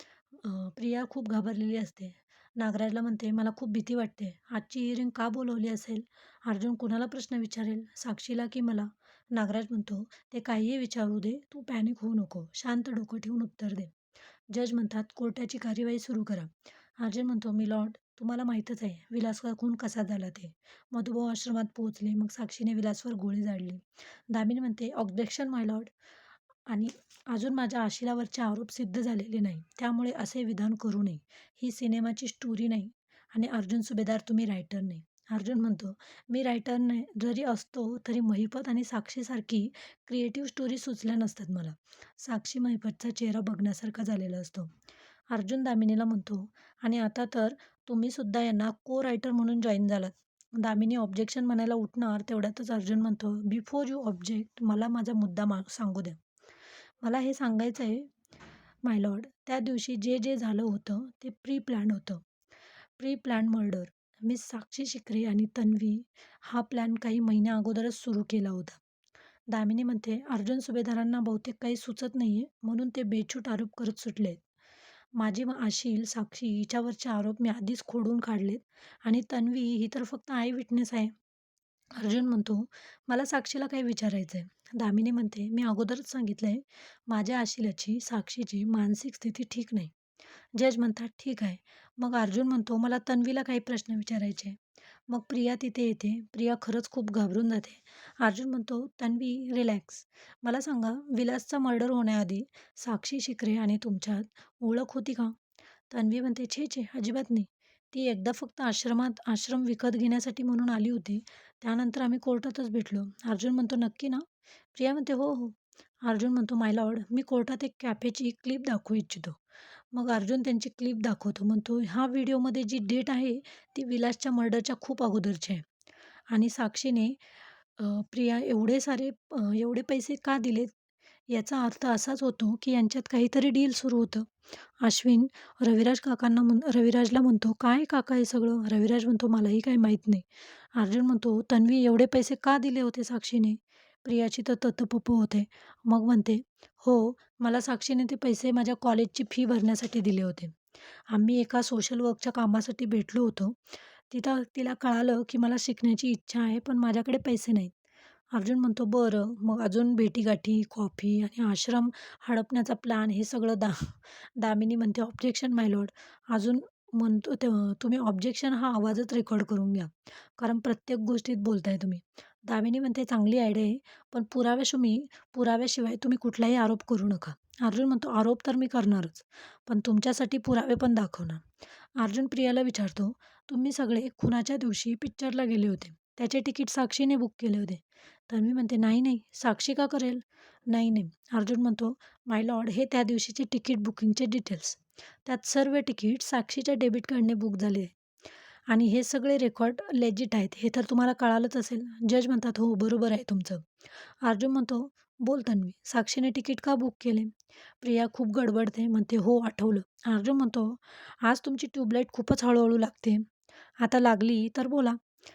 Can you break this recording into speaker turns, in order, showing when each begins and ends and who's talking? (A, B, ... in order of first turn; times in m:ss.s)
0:00.4-0:13.9 A
0:14.5-0:25.9 A
0:26.7-0:44.7 A
0:45.3-0:56.2 A
0:57.0-0:58.1 A
0:58.8-1:02.2 A
1:03.0-1:08.8 A
1:09.5-1:14.4 A
1:15.2-1:21.1 A
1:22.0-1:29.9 A
1:30.6-1:34.6 A
1:35.1-1:45.3 A
1:45.9-1:59.4 A
1:59.9-2:05.7 A
2:06.3-2:07.2 A
2:07.8-2:10.7 A
2:11.3-2:30.6 A
2:31.1-2:33.6 A
2:34.1-2:37.7 A
2:38.3-3:01.4 A
3:02.0-3:17.9 A
3:18.7-3:23.6 A
3:24.2-3:33.2 A
3:33.8-3:35.0 A